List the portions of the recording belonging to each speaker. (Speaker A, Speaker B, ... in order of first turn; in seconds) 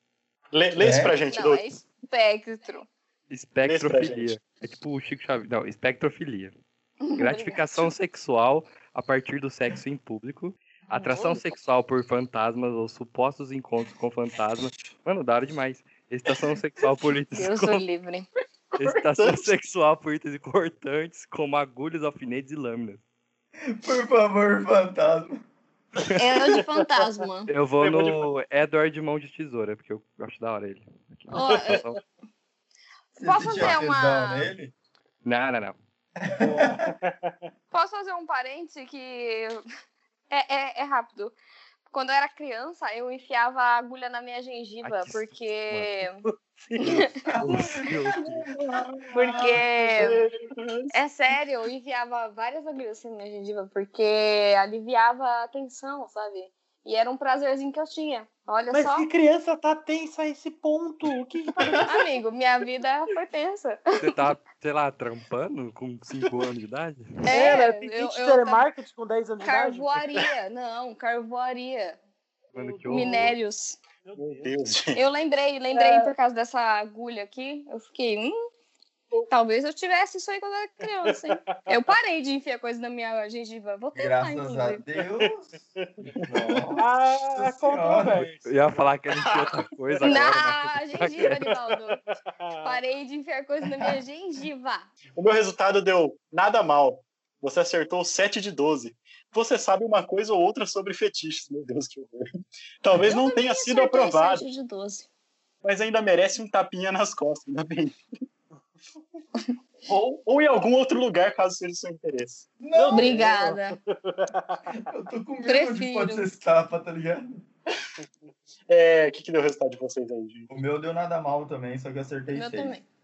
Speaker A: 0.5-1.7, 3.6-4.3, 18.7-19.5, 27.8-28.3, 49.8-50.9, 74.2-75.0, 95.2-102.2, 102.8-104.5, 105.6-107.9, 109.8-112.5, 118.7-120.6
Speaker B: 0.8-1.1, 23.7-25.4, 33.2-34.7, 36.2-36.9, 47.2-47.9, 48.6-49.6, 83.9-85.5, 86.3-88.3, 112.6-113.2, 114.7-117.4, 120.5-122.7
Speaker C: 1.3-2.9, 7.0-7.8, 10.9-11.5, 17.3-18.3, 26.1-27.5, 31.3-31.8, 33.1-34.5, 37.7-39.6, 40.3-41.4, 41.9-46.2, 46.8-47.3, 49.1-50.2, 50.9-59.1, 61.8-64.2, 67.2-68.7, 69.4-72.0, 72.9-73.8, 74.9-78.5, 79.3-84.8, 90.0-92.0, 92.6-94.9, 103.0-105.1, 112.9-113.8, 115.4-116.3, 122.3-122.8
Speaker D: 3.3-6.5, 7.2-17.8, 18.8-23.0, 27.5-32.0, 35.2-35.7, 44.8-46.0, 47.4-48.5, 64.0-67.2, 72.5-73.3, 88.4-91.4
Speaker E: 31.4-32.0, 36.4-37.4, 46.2-47.0, 58.7-62.1, 67.3-70.2, 72.5-73.4, 74.0-74.8, 75.7-76.1, 80.9-81.7, 86.8-88.5, 90.0-90.4, 91.2-92.8, 112.7-114.8